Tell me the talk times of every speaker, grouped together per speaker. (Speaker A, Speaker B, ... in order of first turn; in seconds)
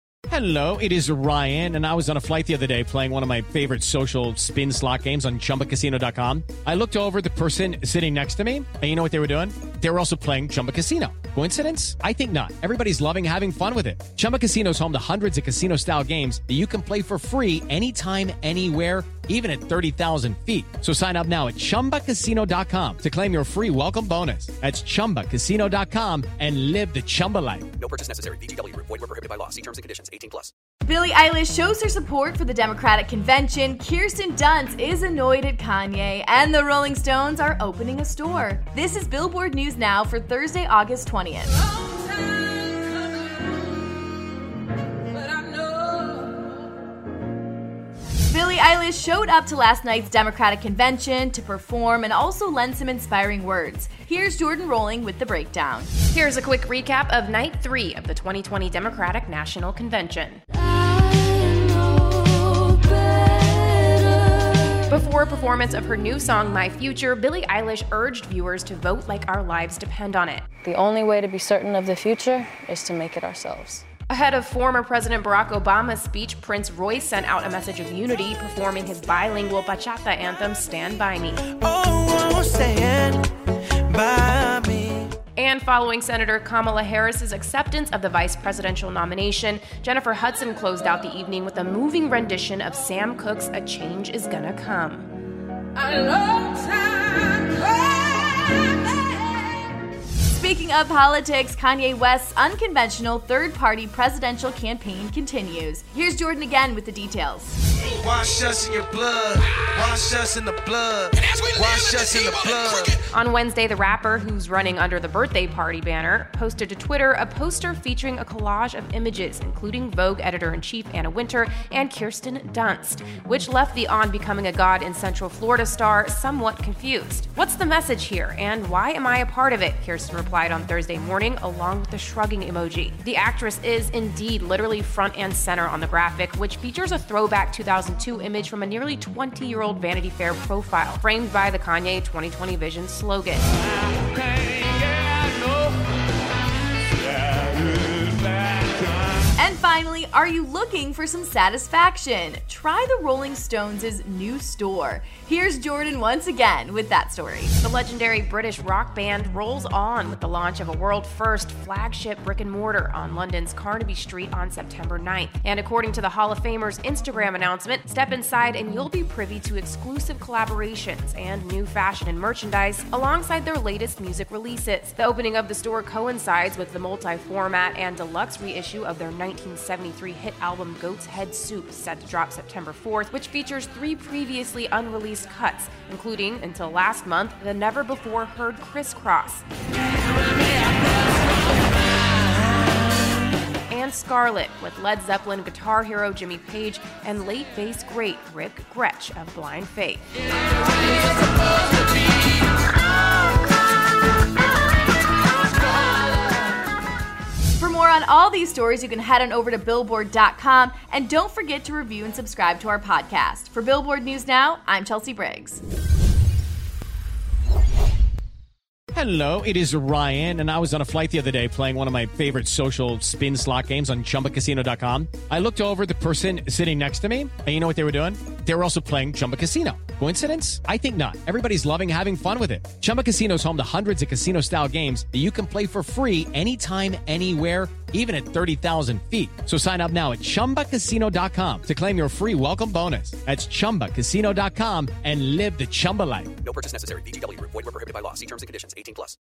Speaker A: 0.3-27.7, 218.9-246.4
Speaker B: 27.8-30.5, 246.4-249.2
Speaker C: 30.9-41.7, 48.3-55.9, 100.3-107.6, 149.4-157.5, 207.6-215.6
Speaker D: 56.0-60.4, 64.9-70.5, 74.1-81.5, 85.4-95.1, 113.0-143.5, 157.6-189.4, 193.7-200.1
Speaker E: 70.5-73.9
Speaker F: 81.7-83.3, 83.9-85.1, 107.9-112.9